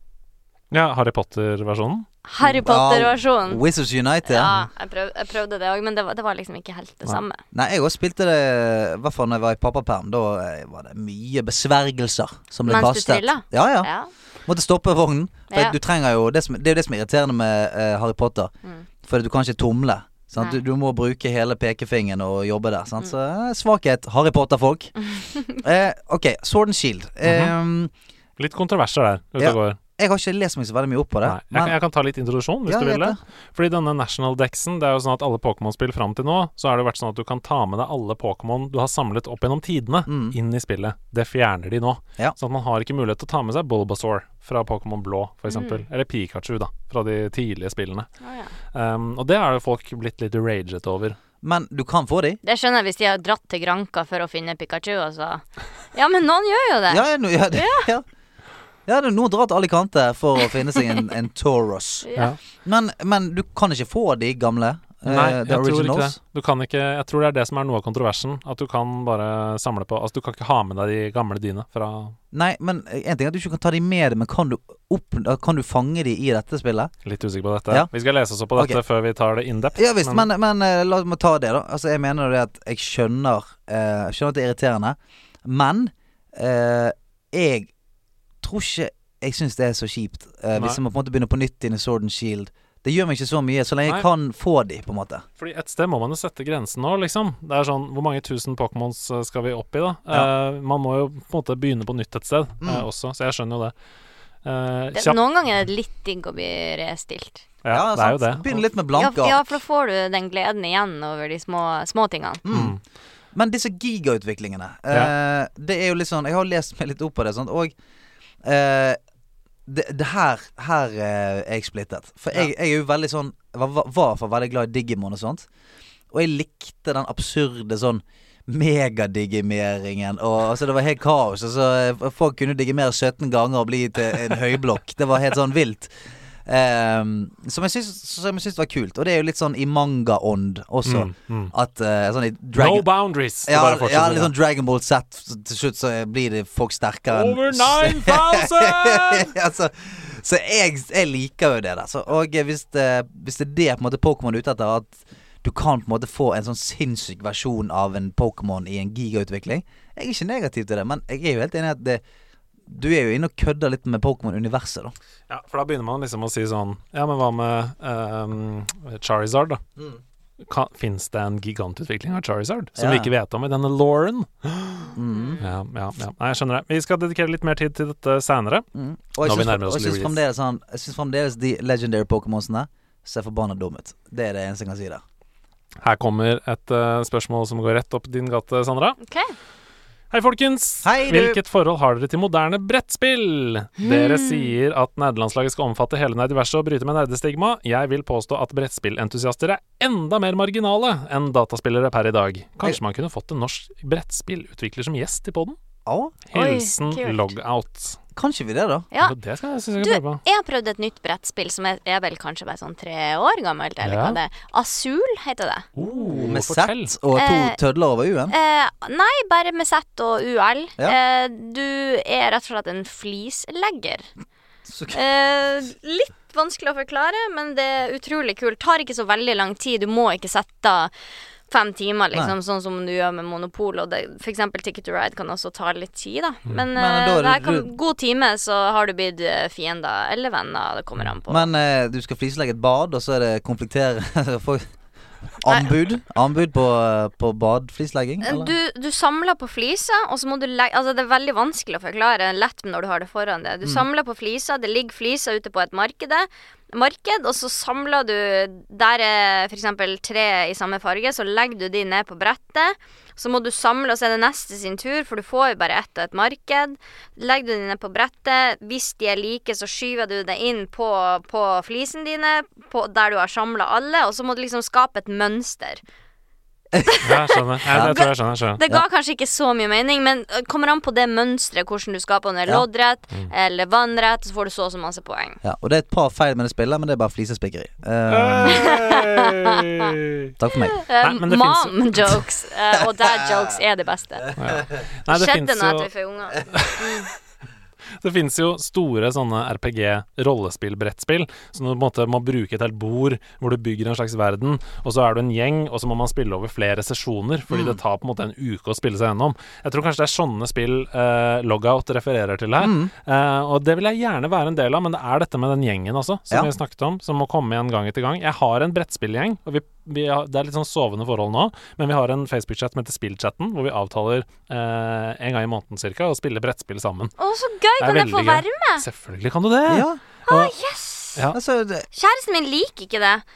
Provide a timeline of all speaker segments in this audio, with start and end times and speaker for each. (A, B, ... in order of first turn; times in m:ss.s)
0:00.7-0:02.0 A
0:02.2-0:03.6 B
0:02.4-0:04.5 C
0:04.2-0:07.4 B
0:07.5-0:13.9 C
0:12.6-0:14.1 B
0:14.5-0:18.5 C
0:15.5-0:15.8 B
0:19.0-0:25.0 C
0:25.1-0:25.6 B
0:25.6-0:27.9 C
0:27.2-0:27.5 A
0:28.4-0:29.8 A
0:29.4-0:31.7 C
0:31.2-0:48.1 A
0:32.7-0:33.2 C
0:40.1-0:40.4 C
0:45.5-0:45.8 B
0:48.2-0:48.5 B
0:48.7-0:51.2 A
0:51.4-0:52.4 C
0:52.4-0:57.9 B
0:56.9-0:58.0 C
0:58.9-1:02.0 C
1:02.0-1:02.3 B
1:02.6-1:06.2 C
1:05.0-1:12.2 A
1:12.3-1:16.9 C
1:17.0-1:20.3 A
1:19.8-1:27.7 C
1:28.4-1:35.2 C
1:30.5-1:30.8 A
1:35.4-1:43.7 A
1:42.6-1:42.8 C
1:44.4-1:45.2 A
1:44.9-1:47.4 B
1:47.6-1:48.6 A
1:47.7-1:49.6 C
1:49.0-1:52.4 B
1:52.4-1:52.8 C
1:52.5-1:52.8 A
1:53.3-1:57.7 C
1:58.4-1:59.0 C
1:59.7-2:05.5 C
2:06.1-2:15.9 C
2:16.4-2:22.9 C
2:20.8-2:21.5 A
2:22.6-2:24.3 A
2:23.4-2:42.0 C
2:27.1-2:29.3 A
2:42.6-2:44.9 C
2:45.3-2:49.6 A
2:50.4-2:58.7 A
2:52.8-2:53.1 C
2:55.0-2:55.4 C
2:55.0-2:55.5 B
2:58.7-3:05.0 C
2:59.2-3:00.2 A
3:05.8-3:09.0 A
3:09.0-3:09.3 B
3:10.1-3:25.6 A
3:10.8-3:11.4 C
3:13.8-3:14.5 B
3:25.8-3:26.2 C
3:26.3-3:28.0 A
3:26.3-3:27.3 B
3:28.1-3:28.9 C
3:29.0-3:30.2 A
3:29.8-3:35.7 B
3:33.8-3:34.2 A
3:35.8-3:36.9 A
3:36.1-3:38.3 C
3:37.1-3:37.6 B
3:38.3-3:44.1 B
3:44.7-3:45.0 C
3:44.9-3:50.9 B
3:51.5-4:01.5 B
3:56.7-3:57.7 C
4:01.3-4:04.6 C
4:05.4-4:08.5 C
4:05.4-4:05.7 B
4:08.2-4:35.8 B
4:36.7-4:38.1 B
4:37.0-4:38.6 A
4:37.7-4:38.0 C
4:38.6-4:45.4 B
4:45.4-4:48.8 C
4:48.1-4:50.3 A
4:48.5-4:49.3 B
4:50.4-4:50.8 C
4:50.8-4:54.3 B
4:51.0-4:52.2 A
4:54.4-4:55.9 A
4:55.1-4:57.1 B
4:56.5-4:57.1 A
4:58.0-5:27.1 A
5:07.5-5:07.8 C
5:12.6-5:12.9 C
5:27.2-5:28.8 B
5:27.8-5:30.5 A
5:29.7-5:30.0 C
5:30.3-5:31.2 B
5:31.3-5:31.9 C
5:31.9-5:33.2 B